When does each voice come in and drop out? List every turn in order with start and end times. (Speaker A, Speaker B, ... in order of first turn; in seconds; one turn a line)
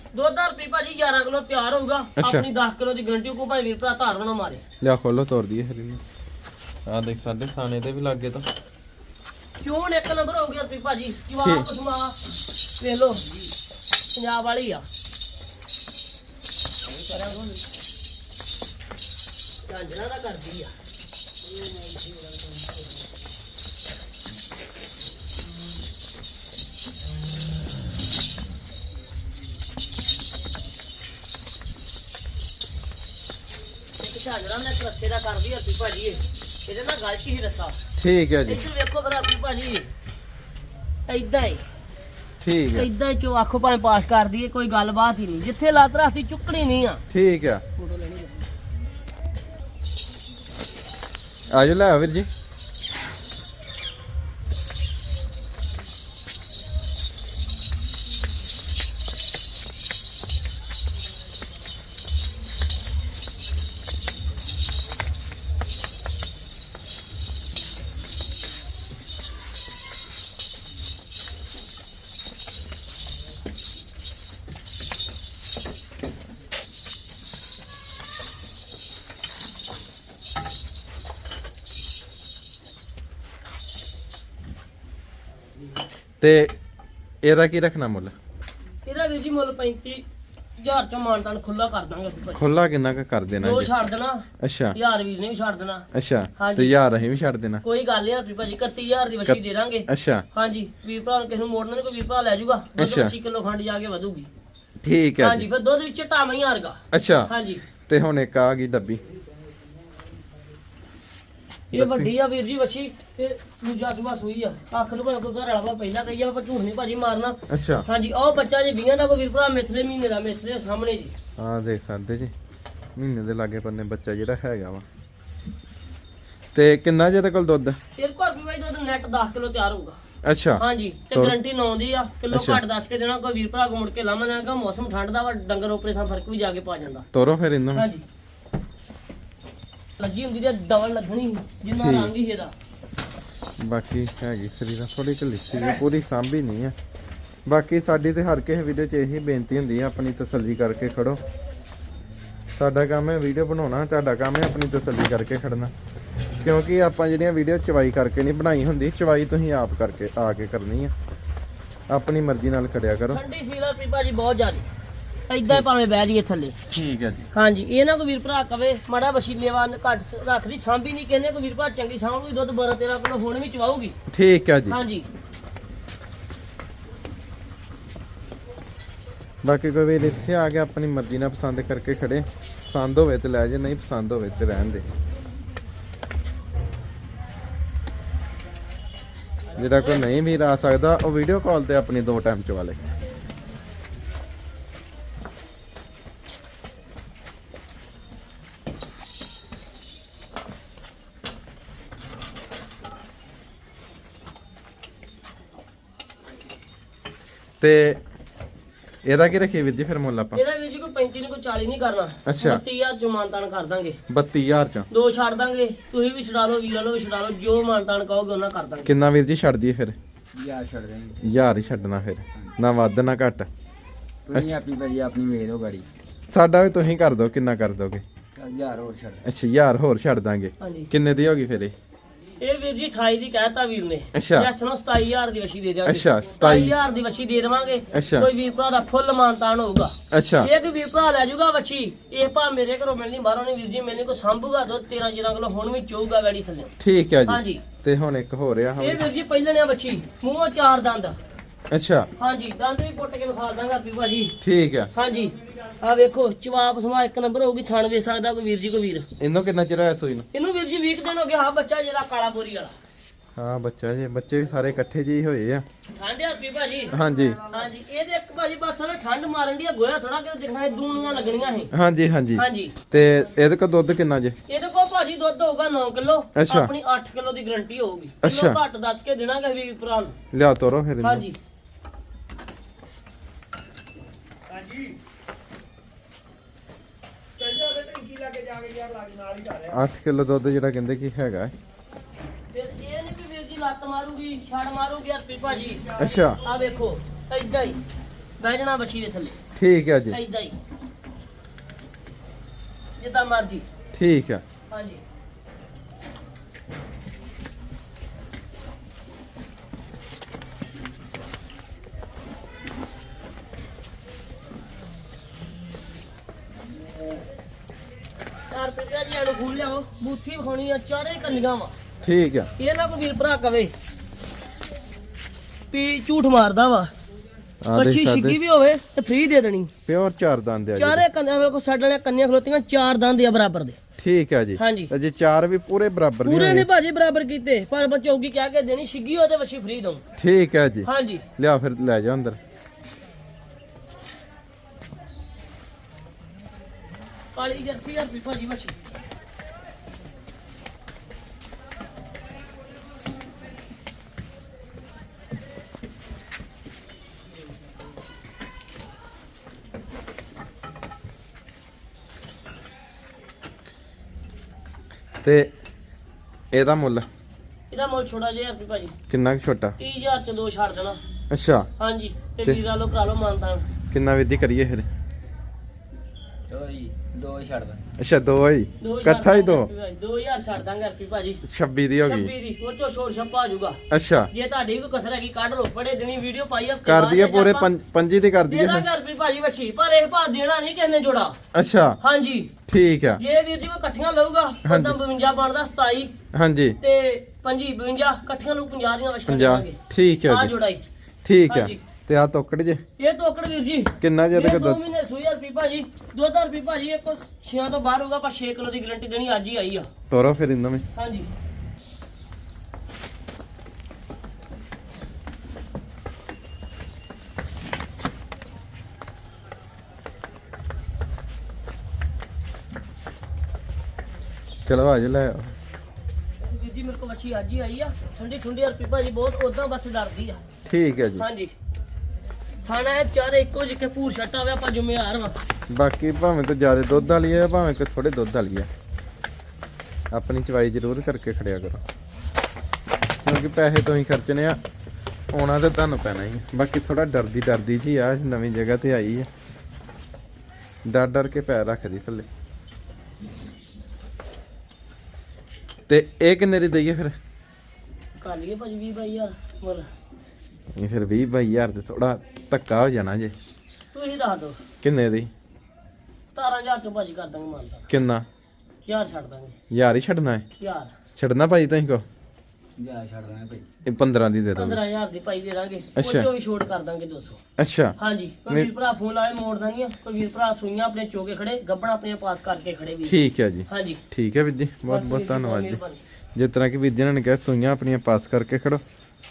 Speaker A: 0.1-4.6
Speaker B: 2.2-2.5
Speaker B: 4.8-6.0
Speaker B: 6.9-8.5
Speaker A: 9.6-12.2
Speaker B: 11.4-11.7
Speaker A: 12.8-13.3
Speaker A: 14.1-14.9
Speaker C: 17.1-17.4
Speaker A: 17.1-17.4
Speaker A: 19.7-20.7
Speaker A: 34.0-37.8
Speaker B: 38.0-38.6
Speaker A: 38.5-39.9
Speaker A: 41.1-41.6
Speaker B: 42.4-42.9
Speaker A: 42.8-47.0
Speaker B: 47.1-47.6
Speaker A: 47.8-48.5
Speaker B: 51.5-52.3
Speaker B: 86.2-86.5
Speaker B: 87.2-88.1
Speaker A: 88.8-90.0
Speaker A: 90.6-92.5
Speaker B: 92.3-93.7
Speaker A: 93.4-96.8
Speaker B: 94.4-94.8
Speaker B: 95.9-97.6
Speaker A: 97.6-104.3
Speaker B: 99.3-100.3
Speaker B: 102.8-103.2
Speaker B: 104.8-105.5
Speaker A: 105.2-107.6
Speaker B: 106.9-107.3
Speaker B: 107.9-109.0
Speaker A: 111.7-121.1
Speaker B: 111.8-112.1
Speaker B: 117.5-117.9
Speaker B: 121.4-122.3
Speaker B: 123.0-124.8
Speaker B: 126.5-127.8
Speaker A: 128.0-130.0
Speaker B: 130.2-131.4
Speaker A: 130.6-137.1
Speaker B: 132.3-132.6
Speaker B: 137.1-137.9
Speaker A: 137.7-138.0
Speaker A: 140.0-142.5
Speaker B: 141.7-142.1
Speaker B: 143.6-146.8
Speaker B: 147.5-151.2
Speaker B: 152.6-155.7
Speaker B: 156.4-160.9
Speaker B: 161.9-163.2
Speaker A: 163.1-164.7
Speaker A: 165.3-166.6
Speaker B: 166.7-167.3
Speaker A: 167.3-173.9
Speaker B: 174.1-174.8
Speaker A: 174.7-175.1
Speaker B: 179.4-184.8
Speaker B: 189.6-192.8
Speaker A: 189.6-190.1
Speaker B: 207.6-208.0
Speaker B: 209.1-210.4
Speaker A: 210.3-214.0
Speaker B: 212.3-212.6
Speaker B: 214.1-214.9
Speaker A: 214.9-218.9
Speaker B: 218.8-220.0
Speaker C: 220.3-221.5
Speaker B: 221.2-223.5
Speaker C: 224.3-225.9
Speaker B: 224.3-224.6
Speaker B: 226.3-228.0
Speaker C: 228.3-229.2
Speaker B: 229.2-231.7
Speaker A: 230.6-230.9
Speaker A: 232.4-246.7
Speaker B: 234.1-234.5
Speaker B: 235.9-236.8
Speaker B: 237.9-238.3
Speaker B: 240.1-240.5
Speaker B: 246.8-249.0
Speaker A: 247.3-247.6
Speaker A: 248.8-251.2
Speaker B: 251.7-252.1
Speaker A: 252.2-254.3
Speaker B: 254.4-254.9
Speaker A: 254.9-259.1
Speaker B: 259.2-260.3
Speaker A: 260.3-262.7
Speaker B: 263.4-265.6
Speaker A: 266.0-271.7
Speaker B: 266.9-267.4
Speaker B: 271.7-274.4
Speaker A: 272.4-272.8
Speaker A: 274.5-280.2
Speaker B: 276.4-276.7
Speaker B: 278.2-278.6
Speaker B: 280.3-281.3
Speaker A: 281.0-281.4
Speaker B: 289.5-291.5
Speaker A: 292.5-297.8
Speaker B: 295.9-296.4
Speaker A: 298.4-299.4
Speaker B: 299.6-300.2
Speaker A: 300.1-300.6
Speaker A: 303.0-303.6
Speaker B: 303.9-304.4
Speaker A: 304.7-305.0
Speaker A: 318.5-321.8
Speaker B: 322.0-322.5
Speaker A: 322.6-323.7
Speaker A: 325.7-326.9
Speaker B: 327.6-328.4
Speaker A: 327.7-329.7
Speaker B: 329.9-331.1
Speaker A: 330.8-333.8
Speaker B: 334.0-336.7
Speaker A: 334.6-334.9
Speaker A: 336.2-340.0
Speaker B: 340.2-342.4
Speaker A: 340.9-341.2
Speaker A: 347.3-348.8
Speaker B: 365.2-365.5
Speaker B: 366.5-367.1
Speaker A: 367.7-368.9
Speaker B: 369.1-369.8
Speaker A: 369.8-371.0
Speaker B: 371.3-371.7
Speaker A: 371.8-373.7
Speaker B: 373.9-374.9
Speaker C: 376.5-377.8
Speaker B: 378.0-379.7
Speaker A: 378.8-381.4
Speaker B: 381.4-382.3
Speaker A: 382.0-383.8
Speaker B: 383.9-384.3
Speaker A: 384.3-387.7
Speaker B: 386.9-388.9
Speaker A: 388.5-391.4
Speaker B: 391.5-392.0
Speaker A: 392.0-392.5
Speaker B: 392.7-393.2
Speaker A: 393.2-396.1
Speaker B: 394.6-395.0
Speaker B: 396.3-396.8
Speaker A: 396.8-400.8
Speaker B: 399.3-400.5
Speaker B: 401.2-402.8
Speaker A: 401.5-401.8
Speaker A: 403.0-409.9
Speaker B: 404.0-404.8
Speaker B: 410.1-410.8
Speaker A: 410.9-411.3
Speaker B: 424.7-425.5
Speaker A: 426.4-430.4
Speaker B: 430.7-431.2
Speaker A: 431.2-431.5
Speaker A: 432.6-435.4
Speaker B: 435.7-438.7
Speaker B: 440.1-441.8
Speaker B: 443.2-444.6
Speaker B: 445.3-449.3
Speaker B: 450.9-452.3
Speaker B: 455.9-457.1
Speaker A: 458.2-459.9
Speaker B: 460.8-463.4
Speaker A: 463.9-464.6
Speaker B: 464.8-465.3
Speaker A: 466.3-467.9
Speaker B: 467.9-468.3
Speaker A: 468.9-469.5
Speaker B: 469.7-470.5
Speaker A: 470.6-470.9
Speaker B: 471.2-472.0
Speaker C: 472.8-473.7
Speaker B: 473.9-474.8
Speaker A: 474.6-477.4
Speaker B: 476.0-476.3
Speaker B: 477.6-478.0
Speaker A: 478.0-484.0
Speaker B: 483.1-485.8
Speaker A: 484.9-486.0
Speaker B: 486.4-488.8